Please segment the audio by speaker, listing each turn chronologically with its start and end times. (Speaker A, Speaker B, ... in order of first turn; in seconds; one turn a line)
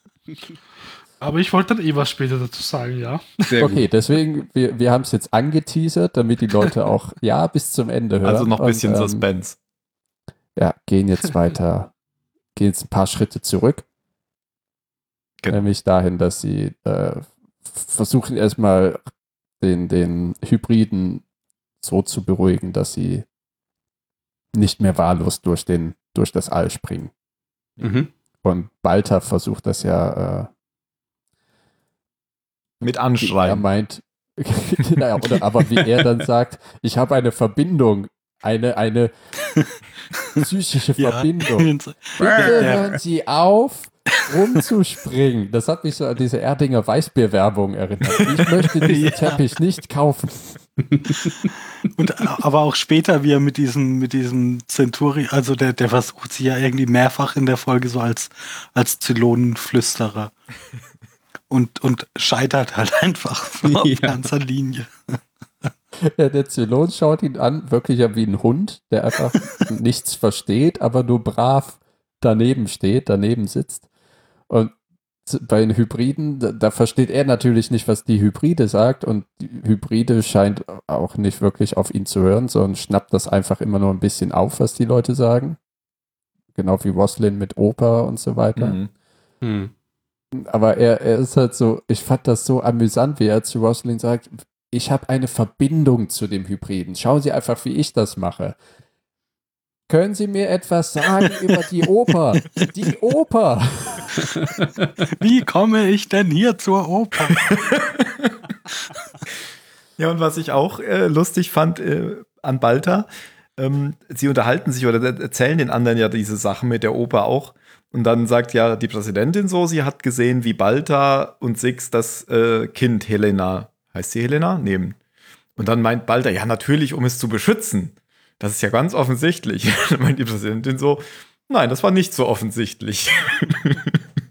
Speaker A: 1.2-3.6
Speaker B: 3.5-3.9
Speaker C: 3.6-9.2
Speaker D: 8.2-9.6
Speaker C: 10.6-11.9
Speaker C: 12.6-13.8
Speaker C: 15.5-19.0
Speaker C: 19.6-21.2
Speaker C: 21.8-23.2
Speaker C: 24.6-27.1
Speaker B: 27.8-28.1
Speaker C: 28.4-30.5
Speaker D: 32.8-33.6
Speaker C: 33.2-39.1
Speaker E: 40.2-40.4
Speaker C: 40.4-50.6
Speaker E: 41.0-43.0
Speaker B: 42.2-42.8
Speaker E: 48.8-49.4
Speaker E: 51.9-60.3
Speaker E: 61.5-65.2
Speaker B: 63.6-64.2
Speaker C: 66.1-73.9
Speaker C: 75.3-85.6
Speaker C: 86.5-88.8
Speaker D: 88.6-88.9
Speaker B: 89.4-89.7
Speaker C: 90.3-98.6
Speaker C: 99.9-104.2
Speaker E: 105.1-107.5
Speaker D: 107.4-108.3
Speaker D: 110.0-125.0
Speaker D: 125.6-134.0